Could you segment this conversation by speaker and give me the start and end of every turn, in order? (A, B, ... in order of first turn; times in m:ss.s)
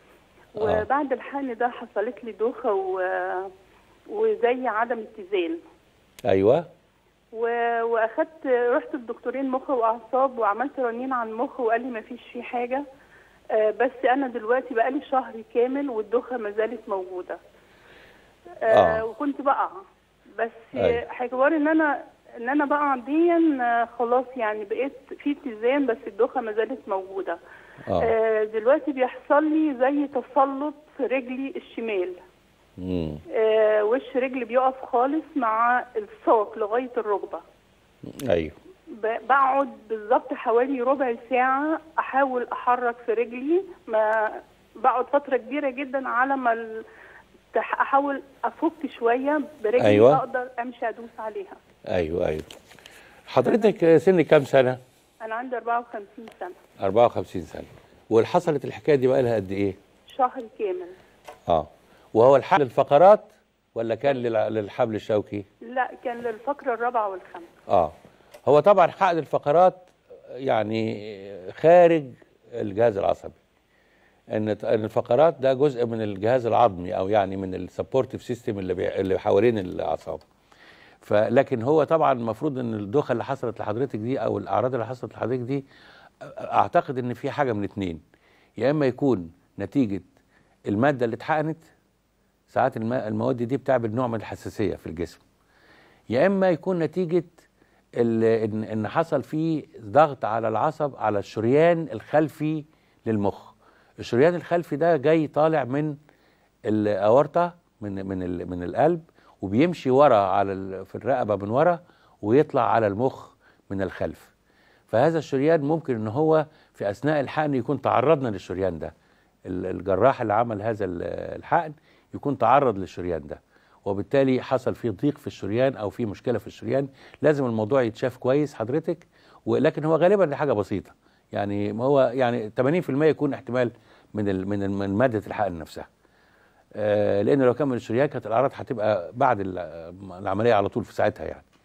0:00.6-0:00.8 A
0:00.6-0:03.5 B
0:04.1-0:05.6 B
0:06.2-0:06.6 A
0:07.3-0:12.8 B
0:13.5-0:17.4 B
0:18.6-0:19.7 B
0:18.7-0:19.0 A
0:20.3-0:27.4 B
0:20.8-0:21.0 A
0:28.0-0:32.2 B
0:32.8-0:33.2 A
0:33.3-0:37.4 B
0:38.3-0:38.6 A
0:38.9-0:46.8 B
0:47.5-0:51.6 B
0:49.8-0:50.2 A
0:51.9-0:52.4 A
0:53.3-0:54.8 A
0:53.4-0:53.7 B
0:55.2-0:56.6 B
0:56.8-0:59.8 A
1:00.1-1:00.9 B
1:01.5-1:05.4 A
1:05.7-1:07.5 B
1:08.4-1:13.4 A
1:14.3-1:20.2 A
1:21.0-1:25.6 A
1:26.2-1:28.0 A
1:28.6-1:30.1 A
1:30.7-1:31.6 A
1:32.5-1:35.2 A
1:36.1-1:37.4 A
1:38.0-1:46.0 A
1:46.7-1:54.3 A
1:54.9-1:58.9 A
1:59.5-2:15.9 A
2:16.8-2:21.4 A